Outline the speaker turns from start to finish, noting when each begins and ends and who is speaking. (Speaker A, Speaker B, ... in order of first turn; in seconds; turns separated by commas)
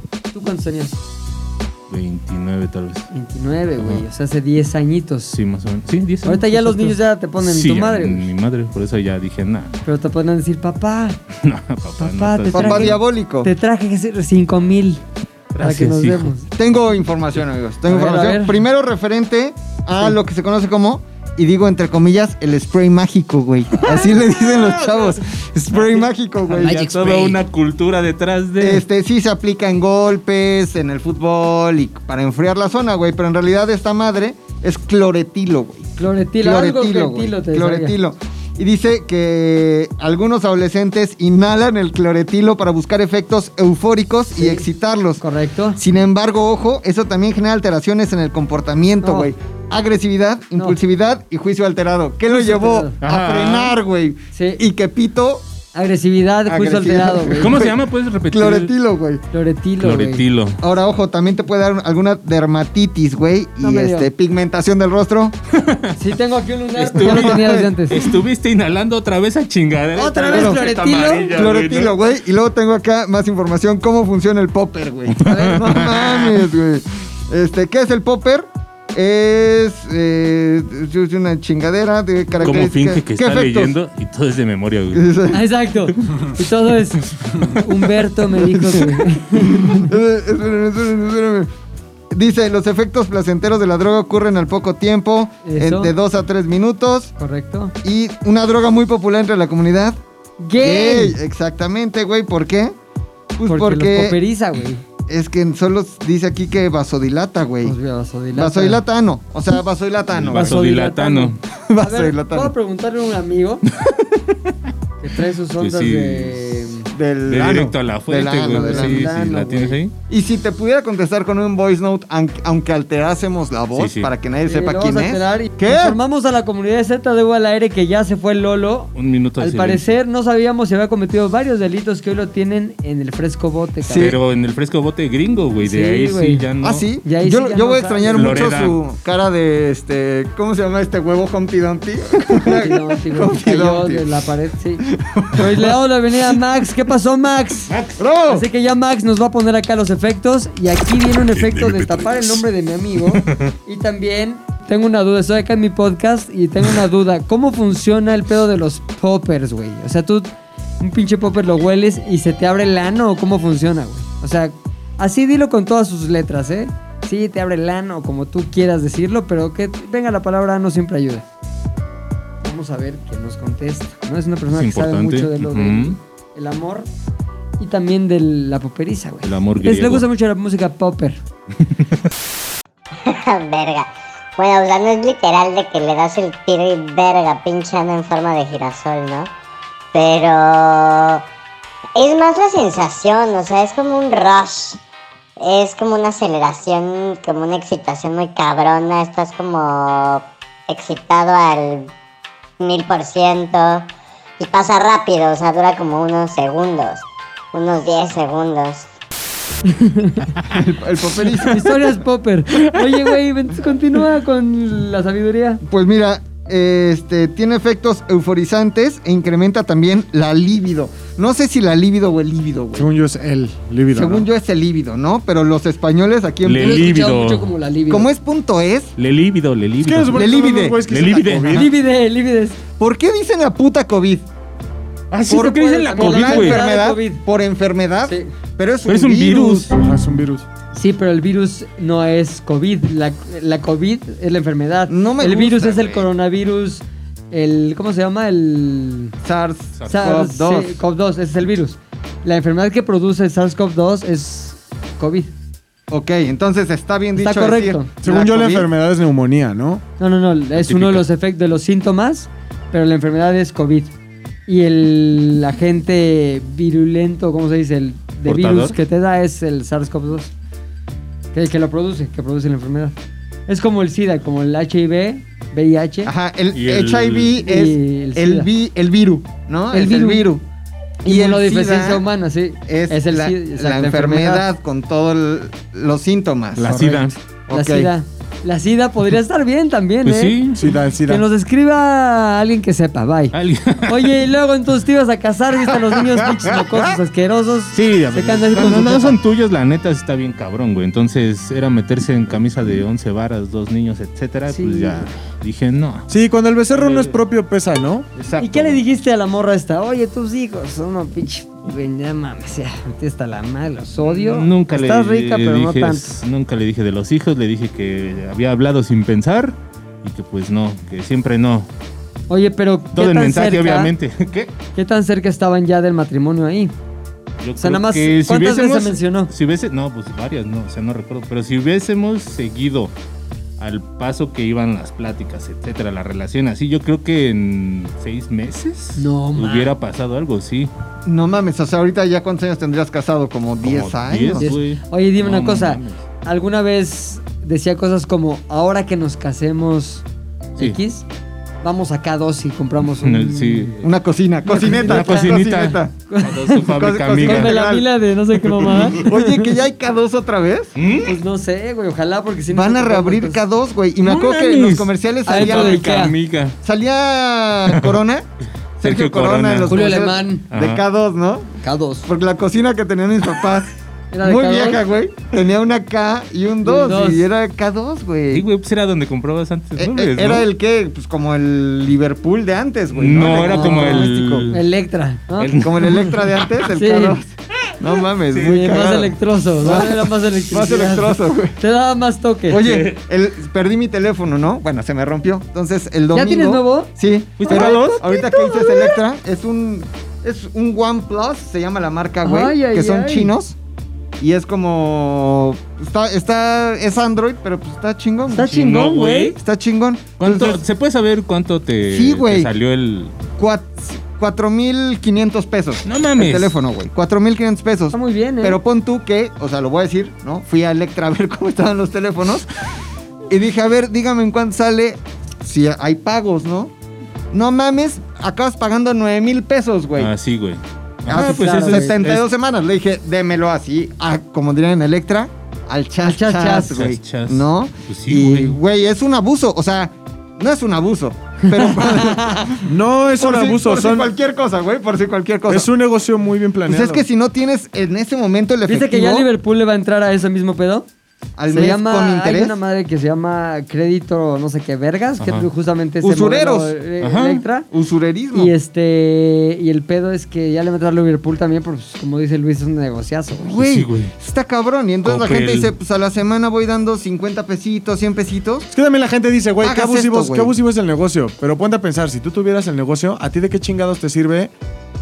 Speaker A: 0.3-1.0, Speaker B: 1.9-3.1, Speaker A: 3.1-5.4, Speaker B: 5.3-9.8, Speaker A: 6.2-8.3, Speaker A: 9.8-11.2, Speaker B: 11.4-13.0, Speaker A: 12.0-15.0, Speaker C: 12.5-13.5, Speaker B: 15.5-16.3, Speaker A: 15.6-16.5, Speaker C: 16.6-27.1, Speaker A: 17.9-18.6, Speaker B: 23.8-25.1, Speaker B: 26.5-28.8, Speaker A: 26.9-27.3, Speaker C: 28.6-45.2, Speaker A: 36.0-38.0, Speaker A: 44.4-44.7, Speaker A: 45.2-45.8, Speaker C: 45.8-55.5, Speaker A: 49.0-49.3, Speaker A: 52.3-53.0, Speaker B: 53.0-53.8, Speaker A: 54.3-54.6, Speaker A: 55.8-57.6, Speaker C: 56.5-57.8, Speaker B: 57.4-58.7, Speaker C: 58.3-59.2, Speaker A: 59.3-60.2, Speaker B: 59.8-60.6, Speaker C: 60.6-65.4, Speaker A: 63.6-64.1, Speaker B: 65.5-66.0, Speaker A: 66.0-68.0, Speaker B: 66.8-72.0, Speaker C: 67.0-67.7, Speaker A: 70.0-71.4, Speaker C: 70.3-70.6, Speaker C: 71.3-83.8, Speaker B: 75.2-76.4, Speaker B: 82.4-85.1, Speaker C: 84.9-85.4, Speaker A: 85.3-89.9, Speaker C: 89.7-91.5, Speaker C: 92.1-97.1, Speaker A: 95.4-95.9, Speaker A: 97.2-97.8, Speaker C: 97.8-100.0, Speaker A: 100.4-101.2, Speaker C: 100.6-102.7, Speaker C: 103.4-104.2, Speaker A: 103.5-104.8, Speaker C: 105.1-107.8, Speaker A: 107.6-108.8, Speaker C: 108.3-110.6, Speaker B: 110.1-111.4, Speaker A: 110.3-113.7, Speaker C: 111.7-112.5, Speaker B: 113.8-114.5, Speaker A: 115.0-116.9, Speaker B: 115.6-116.6, Speaker C: 116.9-119.1, Speaker B: 117.3-119.9, Speaker A: 118.5-119.8, Speaker C: 120.1-126.0, Speaker B: 123.8-124.1, Speaker A: 124.5-134.2, Speaker B: 129.0-129.9, Speaker C: 133.8-134.2, Speaker B: 133.9-136.9, Speaker A: 135.6-136.5, Speaker C: 136.6-144.1, Speaker A: 137.0-138.5, Speaker B: 138.1-138.8, Speaker A: 142.4-147.8, Speaker C: 144.8-145.7, Speaker B: 147.7-148.0, Speaker C: 148.0-148.5, Speaker A: 148.3-160.3, Speaker B: 153.1-153.5, Speaker A: 160.8-171.2, Speaker A: 172.4-176.9, Speaker B: 174.5-176.0, Speaker A: 177.6-181.2, Speaker B: 179.2-180.1, Speaker B: 181.6-182.0, Speaker D: 183.0-189.3, Speaker D: 189.9-191.2, Speaker D: 192.0-194.8, Speaker D: 195.4-201.9, Speaker D: 202.6-203.9, Speaker D: 204.4-208.9, Speaker A: 209.7-210.2, Speaker C: 210.5-212.0, Speaker A: 211.4-215.6, Speaker C: 215.6-222.9, Speaker E: 222.8-224.3, Speaker C: 223.9-227.1, Speaker B: 226.4-227.5, Speaker A: 226.6-228.1, Speaker C: 227.9-228.9, Speaker B: 229.0-230.3, Speaker E: 229.8-231.7, Speaker C: 230.1-231.3, Speaker B: 230.9-231.7, Speaker A: 231.5-232.6, Speaker C: 232.8-234.3, Speaker B: 235.1-236.7, Speaker C: 235.3-239.7, Speaker A: 235.3-237.2, Speaker A: 238.1-238.3, Speaker B: 238.9-239.7, Speaker E: 239.8-240.5, Speaker A: 240.7-249.2, Speaker C: 244.9-246.1, Speaker C: 249.2-250.8, Speaker B: 249.8-250.0, Speaker A: 249.9-255.3, Speaker C: 255.9-258.7, Speaker A: 257.2-257.9, Speaker E: 258.0-259.8, Speaker A: 260.0-263.9, Speaker B: 260.6-261.1, Speaker A: 264.5-270.3, Speaker B: 268.3-268.8, Speaker A: 271.3-272.9, Speaker A: 273.5-276.1, Speaker C: 276.1-280.4, Speaker B: 276.5-277.4, Speaker A: 277.4-278.5, Speaker A: 279.7-280.3, Speaker A: 281.0-284.5, Speaker C: 281.1-282.1, Speaker C: 282.7-287.9, Speaker B: 286.6-287.1, Speaker A: 286.6-290.4, Speaker B: 290.0-290.7, Speaker E: 290.5-291.2, Speaker A: 291.1-293.4, Speaker B: 293.3-294.2, Speaker A: 293.9-299.2, Speaker C: 296.5-296.9, Speaker B: 297.7-306.1, Speaker A: 304.5-305.1, Speaker E: 306.1-308.1, Speaker B: 306.7-307.2, Speaker B: 308.2-308.8, Speaker A: 308.4-316.1, Speaker B: 314.0-321.7, Speaker A: 322.3-323.9, Speaker B: 322.9-324.5, Speaker A: 324.8-326.7, Speaker B: 327.4-332.9, Speaker A: 327.6-329.3, Speaker B: 333.6-340.7, Speaker A: 339.0-339.8, Speaker C: 341.1-344.5, Speaker B: 343.6-346.0, Speaker A: 344.4-350.0, Speaker A: 350.6-351.1, Speaker A: 351.6-353.8, Speaker B: 353.0-353.9, Speaker C: 353.8-355.9, Speaker A: 354.5-355.3, Speaker B: 354.7-357.6, Speaker A: 356.1-356.7, Speaker C: 356.6-357.9, Speaker A: 357.2-359.5, Speaker C: 358.9-360.8, Speaker B: 360.8-361.2, Speaker A: 361.1-363.4, Speaker C: 362.5-366.0, Speaker B: 364.0-366.6, Speaker A: 365.3-366.1, Speaker C: 366.6-368.3, Speaker C: 368.8-371.5, Speaker B: 368.8-369.8, Speaker A: 369.7-370.4, Speaker B: 370.5-370.8, Speaker A: 371.6-372.1, Speaker C: 372.1-373.7, Speaker A: 374.1-374.8, Speaker C: 374.2-378.5, Speaker A: 376.6-377.3, Speaker B: 378.3-380.5, Speaker C: 379.8-384.5, Speaker B: 382.9-384.6, Speaker A: 383.2-385.6, Speaker B: 385.4-386.2, Speaker C: 385.6-391.6, Speaker A: 386.7-387.2, Speaker B: 388.3-388.9, Speaker A: 388.4-392.6, Speaker C: 392.5-403.6, Speaker B: 392.6-393.0, Speaker A: 396.1-396.9, Speaker B: 397.4-398.0, Speaker A: 397.4-398.9, Speaker A: 402.2-403.3, Speaker C: 404.2-408.6, Speaker A: 408.3-409.4, Speaker B: 408.4-409.4, Speaker C: 409.3-410.6, Speaker B: 410.2-413.1, Speaker C: 411.9-412.5, Speaker C: 413.4-422.5, Speaker B: 415.9-416.5, Speaker A: 417.9-418.6, Speaker C: 423.3-426.7, Speaker C: 427.3-430.1, Speaker B: 430.0-432.2, Speaker C: 431.1-445.7, Speaker A: 431.1-432.0, Speaker A: 436.0-436.8, Speaker B: 436.6-438.6, Speaker A: 441.4-442.4, Speaker E: 442.6-444.1, Speaker E: 445.5-447.1, Speaker C: 446.6-449.3, Speaker A: 448.7-450.9, Speaker C: 451.4-452.6, Speaker A: 451.5-457.7, Speaker B: 455.2-455.5, Speaker C: 456.0-456.8, Speaker B: 457.0-457.4, Speaker C: 457.7-458.5, Speaker A: 458.3-463.6, Speaker C: 463.4-468.7, Speaker B: 463.6-464.1, Speaker B: 465.0-465.7, Speaker E: 468.7-474.5, Speaker C: 469.6-470.6